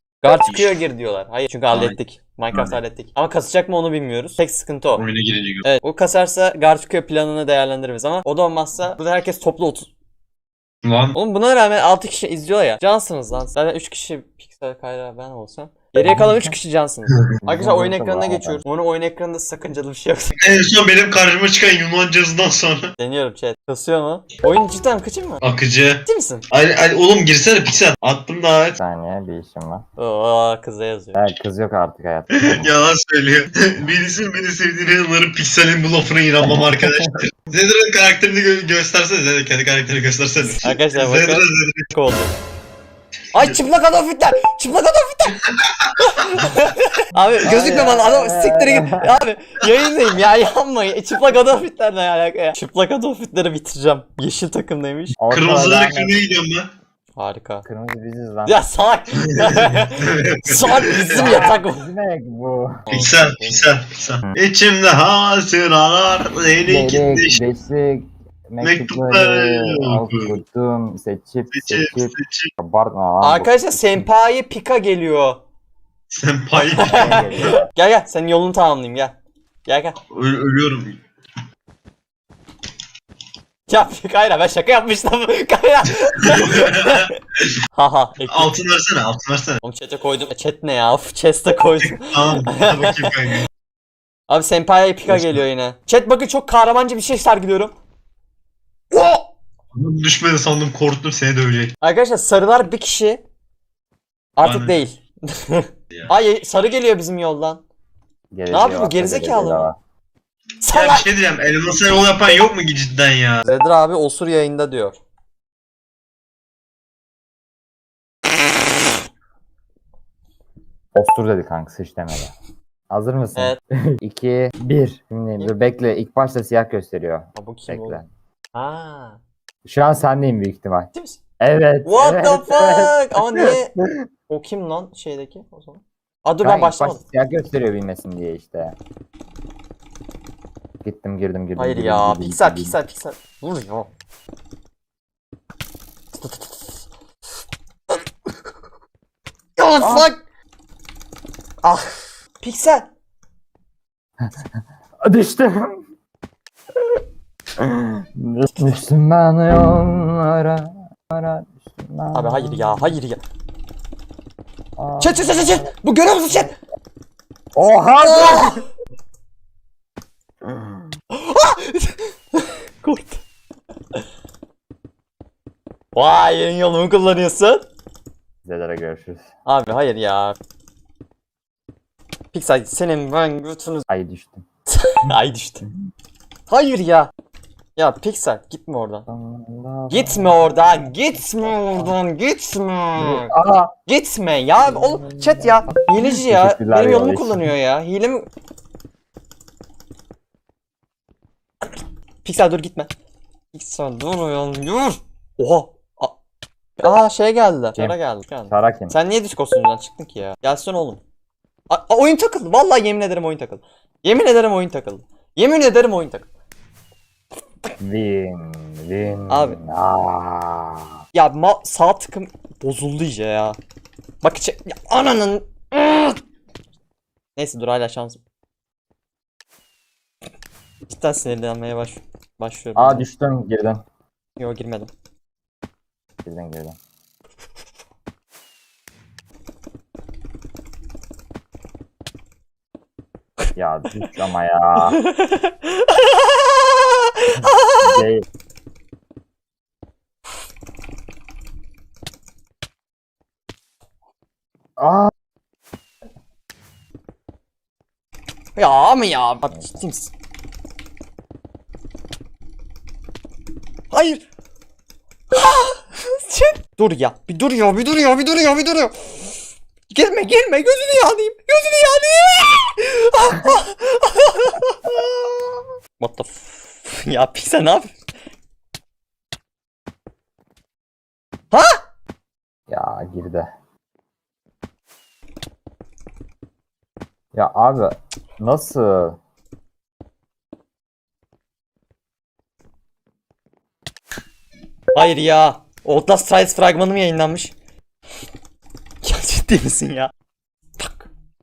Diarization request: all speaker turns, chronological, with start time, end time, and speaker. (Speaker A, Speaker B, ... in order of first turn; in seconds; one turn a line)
Speaker A: 0.2-5.0
Speaker B: 0.3-0.8
Speaker B: 1.7-2.0
Speaker B: 2.5-2.8
Speaker B: 4.9-5.7
Speaker A: 5.6-9.9
Speaker B: 10.8-11.2
Speaker A: 11.1-20.3
Speaker C: 17.4-18.6
Speaker B: 20.4-22.9
Speaker A: 23.0-25.4
Speaker B: 25.4-28.8
Speaker A: 26.1-26.5
Speaker C: 28.8-29.8
Speaker A: 30.0-31.2
Speaker C: 31.1-32.7
Speaker B: 32.4-41.9
Speaker A: 40.6-42.3
Speaker A: 43.3-45.4
Speaker B: 45.5-46.4
Speaker A: 46.0-55.2
Speaker B: 47.4-48.0
Speaker C: 47.4-49.2
Speaker C: 55.2-56.2
Speaker B: 55.3-56.7
Speaker A: 57.2-57.7
Speaker C: 57.6-58.6
Speaker A: 58.5-61.9
Speaker B: 59.3-61.5
Speaker C: 61.1-62.9
Speaker A: 62.9-63.8
Speaker B: 62.9-67.5
Speaker C: 66.7-74.1
Speaker B: 68.6-70.4
Speaker B: 71.5-72.5
Speaker A: 73.2-75.4
Speaker B: 76.1-77.6
Speaker A: 76.5-80.0
Speaker C: 76.9-77.7
Speaker B: 80.1-81.0
Speaker A: 83.7-87.2
Speaker B: 86.2-87.5
Speaker A: 87.7-88.5
Speaker B: 88.2-89.6
Speaker A: 89.6-93.3
Speaker B: 91.8-93.5
Speaker A: 94.3-97.8
Speaker B: 95.1-95.4
Speaker A: 98.9-99.3
Speaker B: 99.8-101.7
Speaker A: 101.8-103.2
Speaker A: 104.4-107.6
Speaker B: 104.4-104.8
Speaker C: 108.3-109.8
Speaker A: 108.5-109.7
Speaker A: 110.6-111.1
Speaker B: 110.7-113.4
Speaker A: 113.4-115.0
Speaker C: 121.0-122.3
Speaker C: 122.9-128.1
Speaker A: 123.3-123.6
Speaker A: 127.3-128.0
Speaker A: 128.5-129.2
Speaker C: 129.7-134.1
Speaker A: 130.9-131.2
Speaker A: 131.8-137.0
Speaker C: 136.4-138.8
Speaker C: 140.8-142.8
Speaker A: 141.6-143.9
Speaker A: 146.1-146.9
Speaker A: 149.6-150.2
Speaker C: 149.8-150.1
Speaker A: 151.6-152.9
Speaker C: 154.2-154.5
Speaker C: 155.0-155.8
Speaker C: 157.6-162.9
Speaker A: 162.1-163.2
Speaker C: 164.8-165.7
Speaker A: 165.0-166.6
Speaker C: 167.6-168.6
Speaker A: 167.7-168.6
Speaker C: 170.4-170.9
Speaker A: 171.1-173.2
Speaker A: 175.9-177.7
Speaker C: 178.4-179.3
Speaker A: 179.4-180.3
Speaker A: 182.3-183.8
Speaker C: 183.9-184.4
Speaker A: 184.7-185.7
Speaker A: 186.5-187.1
Speaker A: 187.8-189.1
Speaker C: 189.1-190.6
Speaker A: 189.9-193.3
Speaker C: 193.0-193.7
Speaker A: 193.9-198.3
Speaker C: 194.6-197.5
Speaker A: 202.2-202.9
Speaker A: 203.5-206.2
Speaker A: 206.8-211.0
Speaker C: 208.5-208.9
Speaker A: 211.7-216.3
Speaker C: 217.8-221.0
Speaker A: 219.3-219.6
Speaker A: 221.1-223.6
Speaker A: 224.2-226.2
Speaker A: 227.4-228.2
Speaker A: 230.9-233.1
Speaker C: 232.8-233.8
Speaker A: 234.4-234.9
Speaker C: 236.2-236.8
Speaker C: 243.6-245.0
Speaker A: 244.8-248.1
Speaker C: 247.4-248.2
Speaker C: 254.8-255.1
Speaker A: 258.6-260.1
Speaker A: 263.9-264.2
Speaker A: 265.3-269.3
Speaker A: 269.9-277.9
Speaker A: 281.5-281.8
Speaker C: 282.7-283.5
Speaker C: 287.3-289.2
Speaker A: 294.9-297.6
Speaker A: 299.0-300.1
Speaker A: 300.8-301.1